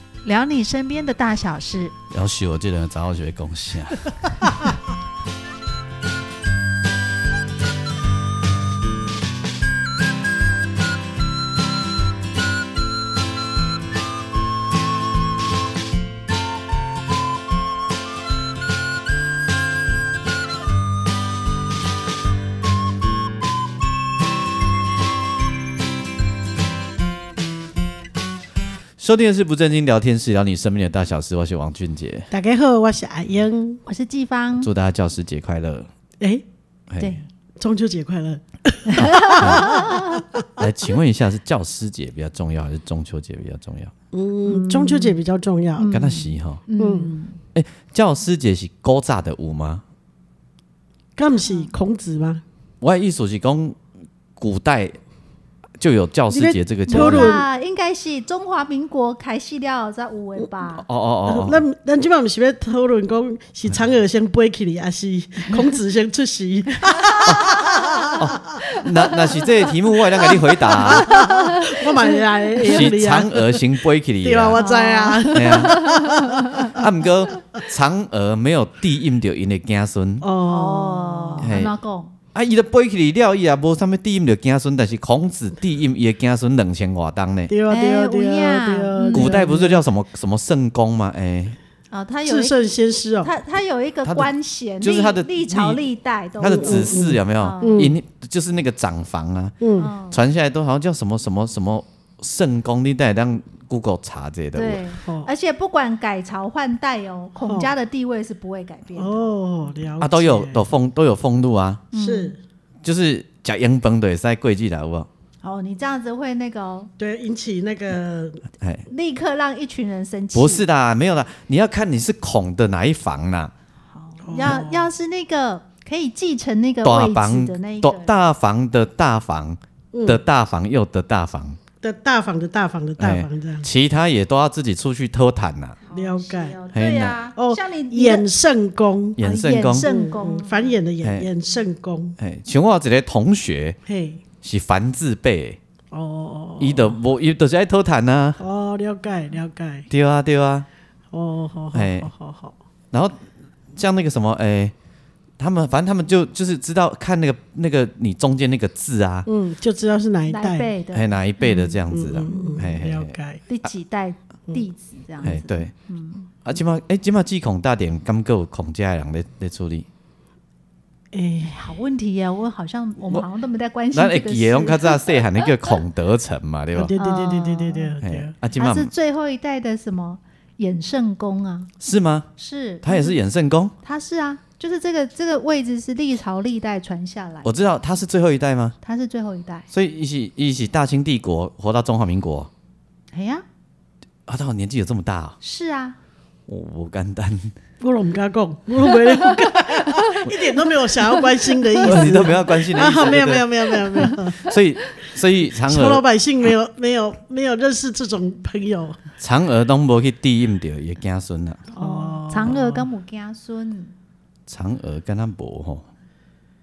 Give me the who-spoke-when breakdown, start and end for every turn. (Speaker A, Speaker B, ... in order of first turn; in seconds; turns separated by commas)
Speaker A: 0.2-1.9, Speaker B: 2.1-4.6, Speaker B: 29.0-32.3, Speaker C: 32.3-33.8, Speaker A: 33.9-34.7, Speaker B: 34.6-35.9, Speaker B: 36.9-37.2, Speaker A: 37.0-37.3, Speaker C: 37.6-40.6, Speaker A: 38.9-40.2, Speaker B: 39.4-39.8, Speaker B: 40.6-43.9, Speaker C: 44.1-45.9, Speaker A: 44.5-45.2, Speaker A: 45.8-47.4, Speaker B: 45.9-46.6, Speaker C: 46.8-47.1, Speaker B: 47.5-49.8, Speaker C: 51.2-52.4, Speaker A: 51.4-51.7, Speaker B: 52.8-53.8, Speaker B: 54.4-55.0, Speaker B: 55.8-57.4, Speaker C: 56.3-57.5, Speaker A: 56.9-60.9, Speaker B: 60.8-61.6, Speaker C: 61.3-68.6, Speaker A: 66.9-69.7, Speaker B: 67.3-67.6, Speaker B: 68.2-71.2, Speaker A: 70.2-72.8, Speaker C: 70.3-73.7, Speaker B: 72.6-74.6, Speaker C: 74.2-76.8, Speaker A: 74.5-76.8, Speaker B: 75.3-75.8, Speaker B: 76.7-80.3, Speaker C: 80.2-81.5, Speaker A: 80.4-82.2, Speaker B: 81.4-81.7, Speaker B: 82.3-87.5, Speaker C: 87.5-89.8, Speaker A: 87.7-89.3, Speaker B: 89.1-91.6, Speaker A: 91.9-92.7, Speaker C: 92.3-93.3, Speaker A: 93.2-97.8, Speaker B: 94.0-95.8, Speaker B: 96.4-99.6, Speaker C: 96.5-98.0, Speaker C: 99.6-99.9, Speaker A: 99.8-100.2, Speaker B: 100.1-104.8, Speaker A: 104.5-109.7, Speaker C: 109.0-110.6, Speaker B: 110.0-111.9, Speaker A: 111.9-112.4, Speaker C: 112.0-112.4, Speaker B: 112.8-115.1, Speaker A: 115.4-116.9, Speaker C: 117.0-118.4, Speaker A: 118.9-120.6, Speaker B: 120.3-123.5, Speaker A: 123.9-128.1, Speaker C: 124.3-124.9, Speaker B: 126.8-131.6, Speaker C: 129.9-130.2, Speaker C: 131.8-133.7, Speaker B: 133.0-135.8, Speaker A: 135.8-138.2, Speaker C: 135.9-136.6, Speaker B: 136.7-137.2, Speaker C: 137.4-139.2, Speaker B: 139.2-139.9, Speaker A: 139.2-140.8, Speaker C: 139.8-142.2, Speaker B: 141.0-141.3, Speaker B: 142.2-143.8, Speaker C: 143.9-144.2, Speaker B: 144.4-145.6, Speaker C: 145.9-147.0, Speaker B: 146.6-148.4, Speaker C: 148.4-149.9, Speaker B: 149.9-150.7, Speaker C: 151.1-152.5, Speaker B: 151.7-152.1, Speaker B: 152.9-153.2, Speaker B: 153.7-154.7, Speaker B: 155.4-159.3, Speaker C: 159.3-160.7, Speaker A: 160.3-162.6, Speaker B: 160.9-163.1, Speaker C: 161.9-163.4, Speaker A: 163.5-166.3, Speaker B: 165.2-165.7, Speaker B: 166.4-169.9, Speaker C: 171.1-171.6, Speaker A: 171.4-175.2, Speaker B: 173.9-176.9, Speaker C: 176.8-178.3, Speaker A: 177.0-177.9, Speaker B: 178.0-178.9, Speaker A: 178.6-181.7, Speaker B: 181.8-182.3, Speaker A: 182.4-183.2, Speaker B: 182.8-183.7, Speaker A: 183.8-187.5, Speaker B: 187.4-188.8, Speaker A: 188.8-189.7, Speaker B: 189.7-192.5, Speaker A: 193.1-193.4, Speaker B: 194.3-195.4, Speaker A: 195.4-196.0, Speaker B: 196.5-197.5, Speaker C: 197.8-204.4, Speaker A: 199.2-200.3, Speaker A: 201.1-201.8, Speaker B: 201.8-206.0, Speaker C: 205.5-209.0, Speaker B: 209.2-211.7, Speaker C: 211.7-212.7, Speaker A: 211.8-213.9, Speaker B: 214.5-215.8